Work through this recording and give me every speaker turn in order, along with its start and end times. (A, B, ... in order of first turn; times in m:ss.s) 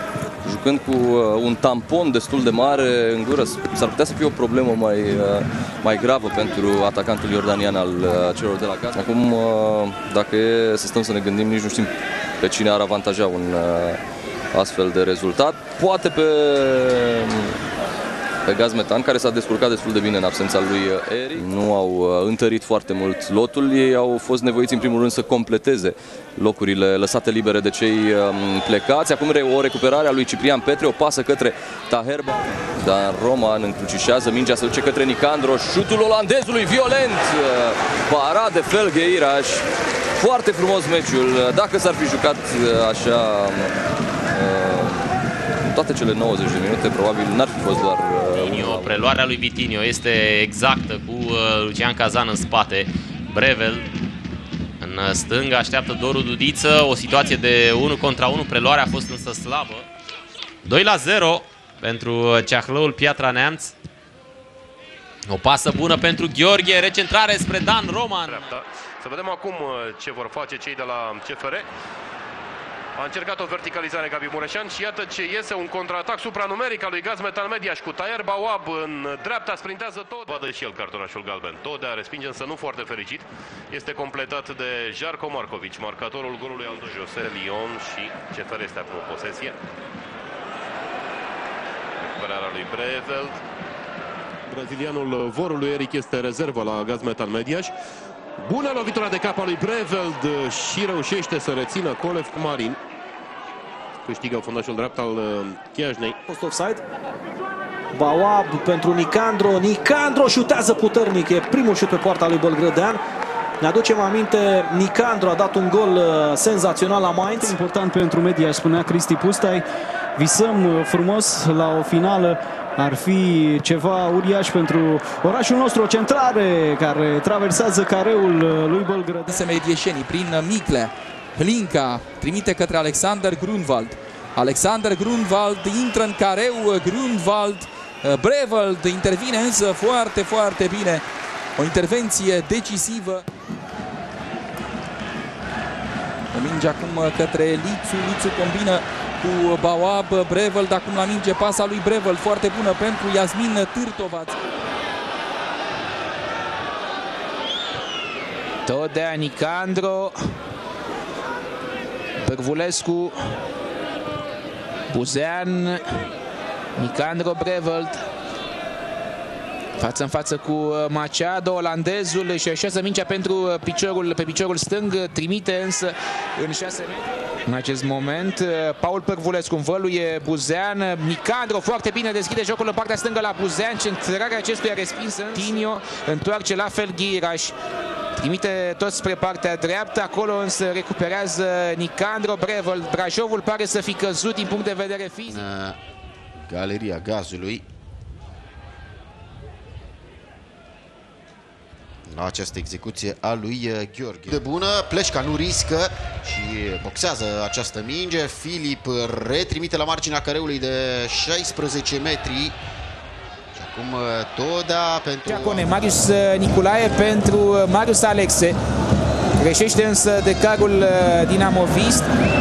0:00.4-0:14.0 A
0:14.5-0:17.6 A
0:18.5-0:39.7 A
0:40.2-0:43.7 A
0:44.3-0:45.1 A
0:45.7-0:49.1 A
0:48.4-0:53.8 B
0:54.8-0:59.9 B
1:00.6-1:03.7 B
1:05.3-1:08.5 B
1:08.2-1:11.7 C
1:13.0-1:29.6 C
1:32.0-1:33.4 C
1:34.5-1:37.7 C
1:38.4-1:42.8 C
1:44.0-1:46.2 C
1:46.3-1:46.8 D
1:47.9-1:53.0 D
1:53.6-1:57.6 D
1:57.5-1:59.6 E
2:00.2-2:09.3 E
2:09.2-2:21.0 F
2:21.6-2:23.3 F
2:26.3-2:34.4 F
2:38.7-2:40.2 G
2:42.2-2:43.2 G
2:44.9-2:45.8 G
2:46.8-2:48.0 G
2:49.8-3:07.6 G
3:08.2-3:15.4 G
3:15.3-3:15.8 H
3:16.4-3:17.6 H
3:22.1-3:32.6 H
3:33.5-3:35.9 H
3:35.3-3:38.6 G
3:39.4-3:42.1 G